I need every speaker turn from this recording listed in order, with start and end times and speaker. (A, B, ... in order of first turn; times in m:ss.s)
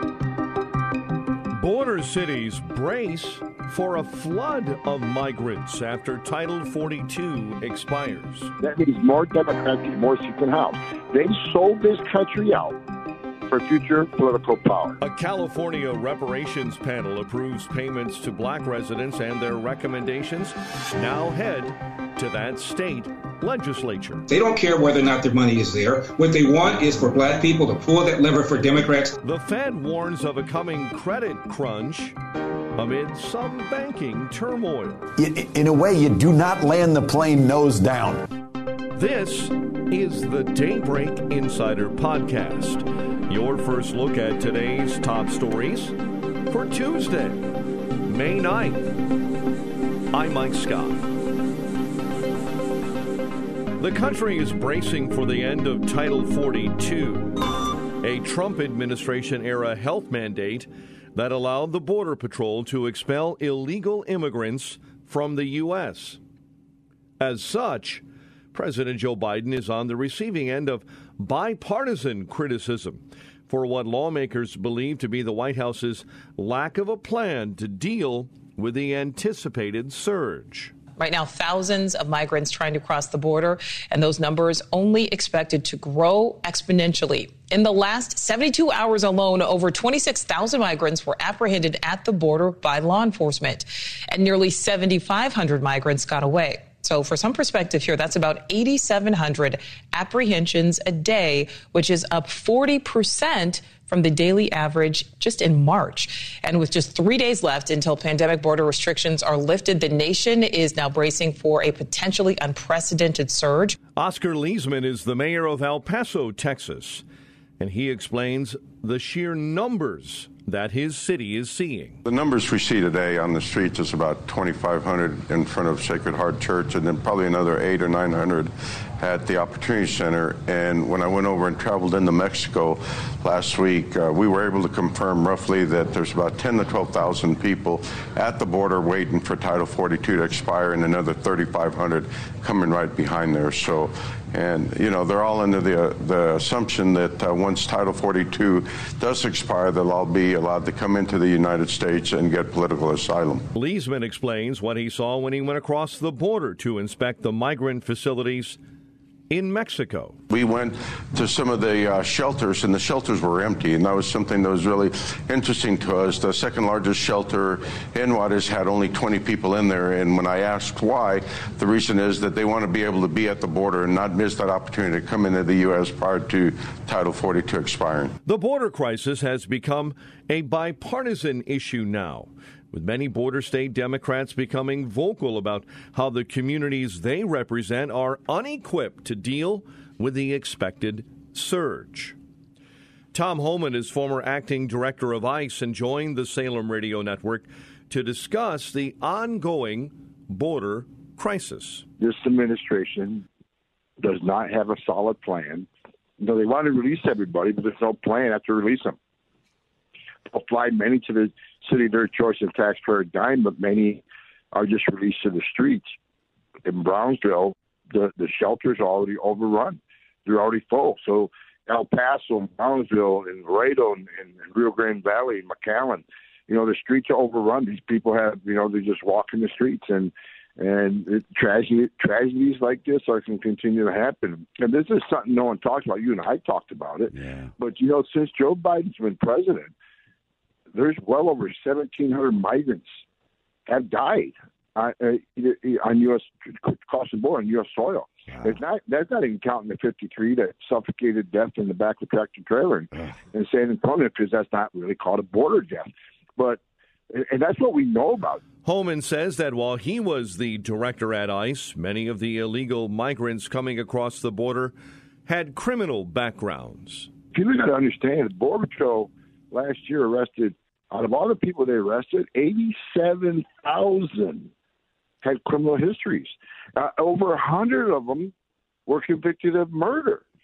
0:01.5-0:08.5 A
0:08.6-0:12.8 B
0:13.5-0:15.0 B
0:15.0-0:24.2 A
0:24.3-0:29.1 C
0:29.2-0:32.2 A
0:32.8-0:35.0 A
0:35.2-0:38.2 D
0:38.9-0:46.0 A
0:46.5-0:47.5 A
0:48.1-0:48.9 A
0:50.1-0:51.0 A
0:53.8-0:57.4 A
0:58.0-1:06.2 A
1:07.2-1:20.7 A
1:21.0-1:53.8 E
1:54.0-1:57.0 A
1:57.6-2:02.0 A
2:02.0-2:33.4 F
2:33.5-2:38.6 A
2:39.3-2:40.2 A
2:40.3-2:58.1 F
2:58.2-3:12.2 A
3:13.1-3:21.8 A
3:22.0-3:23.2 B
3:24.0-3:25.7 B
3:26.2-3:29.0 B
3:30.3-3:35.9 B
3:36.6-3:59.7 B
4:00.7-4:02.9 B
4:03.7-4:16.6 B
4:17.1-4:18.4 B
4:18.6-4:24.7 A
4:25.3-4:27.1 A
4:27.3-4:34.5 B
4:35.2-4:38.3 B
4:38.8-4:40.2 B